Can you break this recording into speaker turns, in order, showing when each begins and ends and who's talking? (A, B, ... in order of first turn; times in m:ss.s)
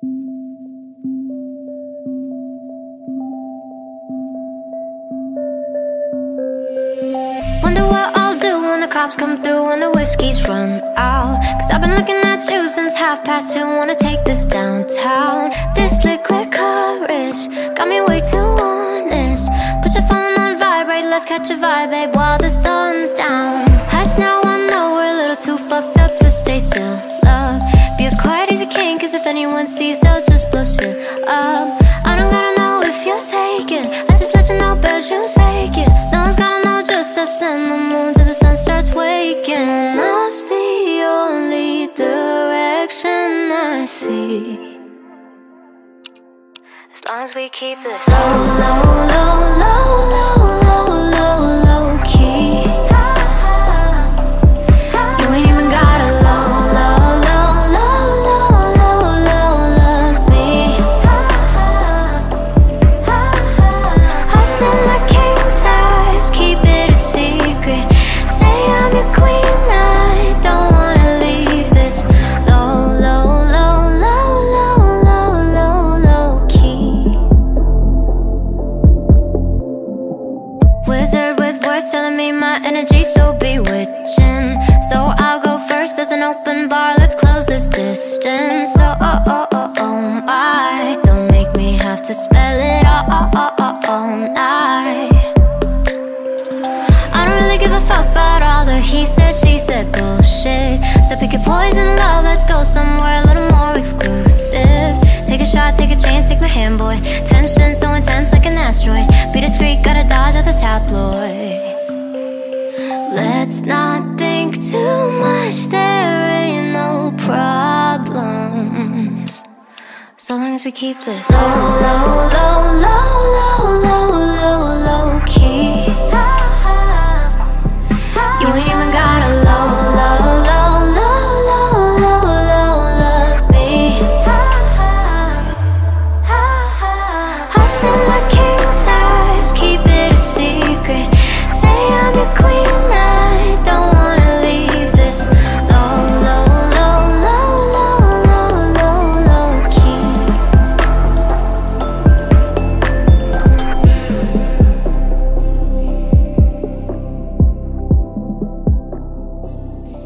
0:07.6-0:44.8 A
0:46.9-0:54.1 A
0:55.0-1:02.3 A
1:03.0-1:17.3 A
1:20.8-1:35.3 A
1:37.1-1:52.0 A
1:53.1-1:59.4 A
2:00.2-2:07.4 A
2:08.1-2:15.5 A
2:16.2-2:30.4 A